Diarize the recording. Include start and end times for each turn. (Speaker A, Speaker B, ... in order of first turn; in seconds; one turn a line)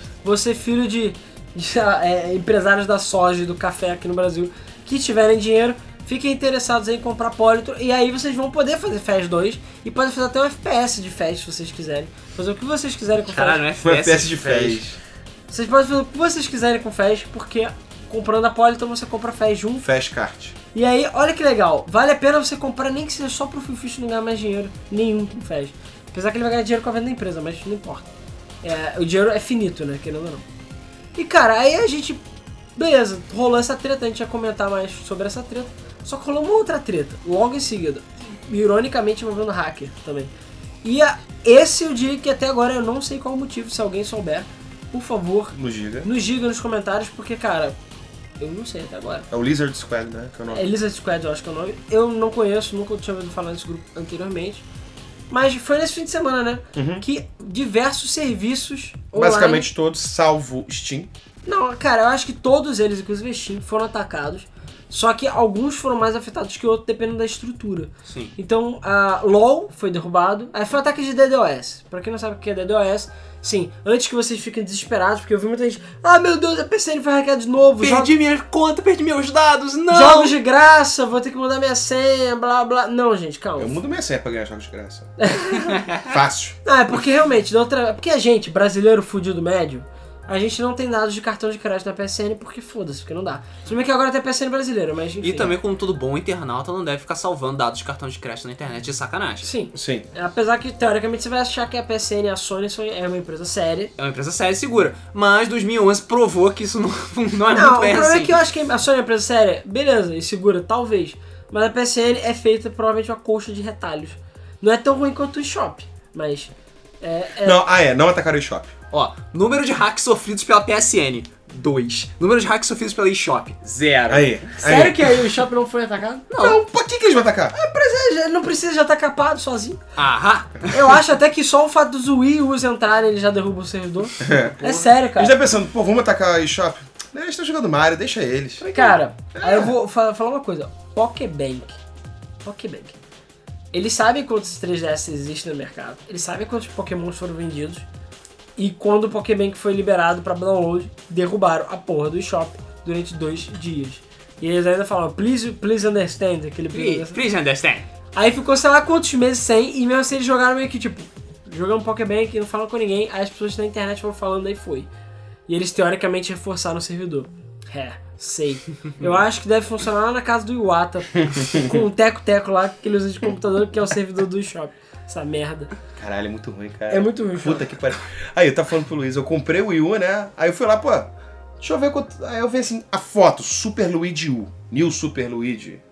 Speaker A: 0.2-13.6
Speaker B: 13.3-14.8
Speaker C: 13.8-15.0
Speaker A: 15.5-19.9
Speaker C: 19.8-20.6
Speaker A: 20.7-28.1
Speaker A: 28.6-30.4
Speaker A: 31.2-32.2
Speaker A: 32.8-40.3
Speaker A: 40.8-47.8
Speaker C: 45.5-46.1
Speaker A: 48.4-49.3
Speaker C: 49.3-50.7
Speaker A: 50.5-54.6
Speaker A: 55.3-59.7
Speaker C: 56.8-57.0
Speaker C: 59.1-61.1
Speaker A: 61.5-78.1
Speaker B: 68.1-68.3
Speaker B: 77.8-80.3
Speaker A: 79.9-83.8
Speaker C: 83.6-85.1
Speaker A: 85.2-85.8
Speaker B: 85.5-86.1
Speaker C: 86.0-86.6
Speaker A: 86.7-95.5
Speaker B: 95.2-99.5
Speaker A: 99.4-103.9
Speaker C: 99.7-100.1
Speaker B: 104.0-108.3
Speaker A: 107.5-117.6
Speaker C: 117.4-118.7
Speaker B: 118.9-124.3
Speaker C: 124.1-125.3
Speaker A: 124.6-126.4
Speaker B: 126.3-126.6
Speaker C: 126.4-127.5
Speaker A: 127.5-129.8
Speaker B: 130.0-131.0
Speaker A: 130.7-135.4
Speaker C: 134.2-134.6
Speaker B: 134.2-134.9
Speaker C: 135.2-139.7
Speaker A: 138.6-141.8
Speaker A: 142.4-143.0
Speaker A: 143.7-147.8
Speaker A: 148.6-157.2
Speaker B: 156.7-157.9
Speaker A: 158.1-164.9
Speaker A: 165.5-175.7
Speaker C: 176.0-185.8
Speaker A: 176.9-177.7